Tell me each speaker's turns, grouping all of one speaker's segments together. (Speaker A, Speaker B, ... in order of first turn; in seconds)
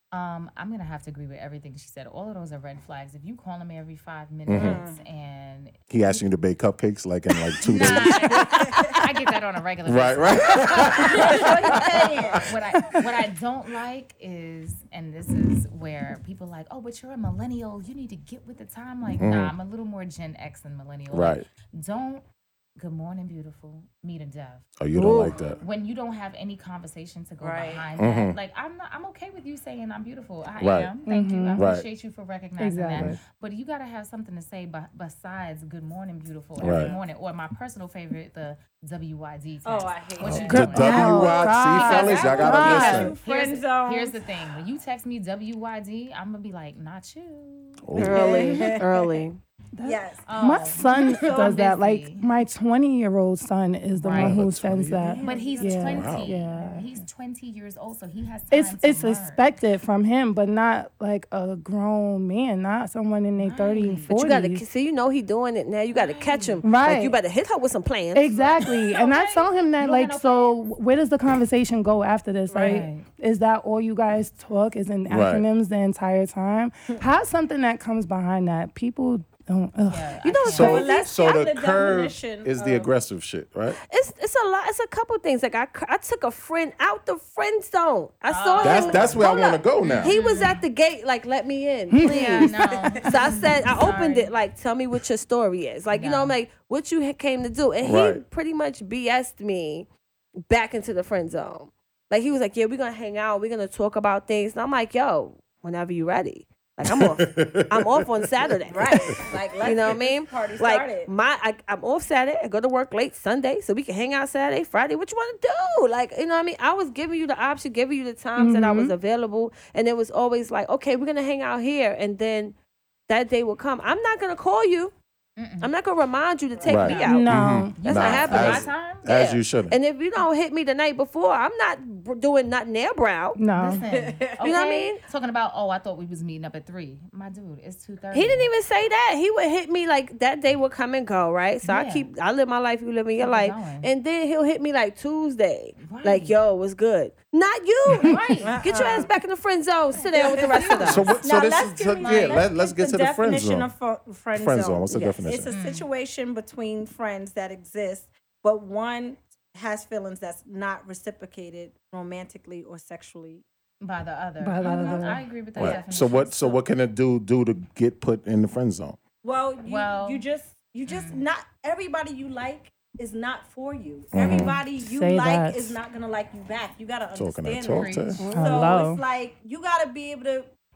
Speaker A: 0.1-6.2, 7.6-11.8, 12.4-22.2, 22.8-24.7, 25.4-41.0, 41.7-48.4, 50.3-52.3, 54.0-54.4, 55.2-59.5, 63.4-64.1, 65.9-66.6, 68.3-70.6, 72.6-73.0, 79.9-80.8, 88.3-89.2, 89.8-90.6, 92.0-94.3, 95.9-96.3, 125.4-125.7, 126.8-127.2, 127.8-129.1, 133.6-138.5, 141.6-142.1, 143.2-143.9, 145.8-146.3, 147.9-148.7, 150.0-151.4, 152.0-152.4, 155.5-155.9, 163.8-166.6, 169.6-170.2, 170.9-171.2, 177.7-178.3
Speaker B: 4.5-4.8, 5.9-8.9, 9.9-12.4, 19.2-19.5, 21.1-21.5, 24.8-25.6, 28.0-28.4, 30.6-30.9, 31.6-31.9, 36.6-37.0, 40.2-43.2, 47.8-48.6, 54.1-55.2, 55.9-56.3, 75.1-75.4, 80.5-83.8, 88.6-90.1, 97.8-98.2, 106.8-109.2, 126.7-129.8, 150.9-153.7, 154.3-155.5, 165.6-169.0, 174.1-174.6, 177.1-178.2
Speaker C: 4.5-5.0, 8.4-8.9, 10.8-12.5, 25.3-25.6, 27.4-27.9, 36.6-37.0, 39.6-44.2, 48.1-49.2, 49.8-51.7, 55.0-55.9, 72.5-72.8, 80.5-82.9, 108.7-111.1, 126.6-127.0, 133.9-134.5, 148.4-149.1, 150.2-163.4, 164.6-165.8, 169.2-180.5
Speaker D: 24.9-25.4, 48.0-49.4, 64.1-68.3, 80.2-81.0, 83.8-99.9, 100.5-122.6, 123.1-124.9, 125.6-127.3, 127.8-133.4, 134.4-135.0, 138.1-151.1
Speaker E: 31.0-31.7, 32.6-33.2, 40.4-43.1, 49.8-56.9, 58.5-64.6, 66.6-67.2, 68.1-80.2, 91.9-92.5, 118.4-118.9, 127.0-127.8, 133.4-133.8, 164.4-165.2, 174.8-175.8, 178.2-179.0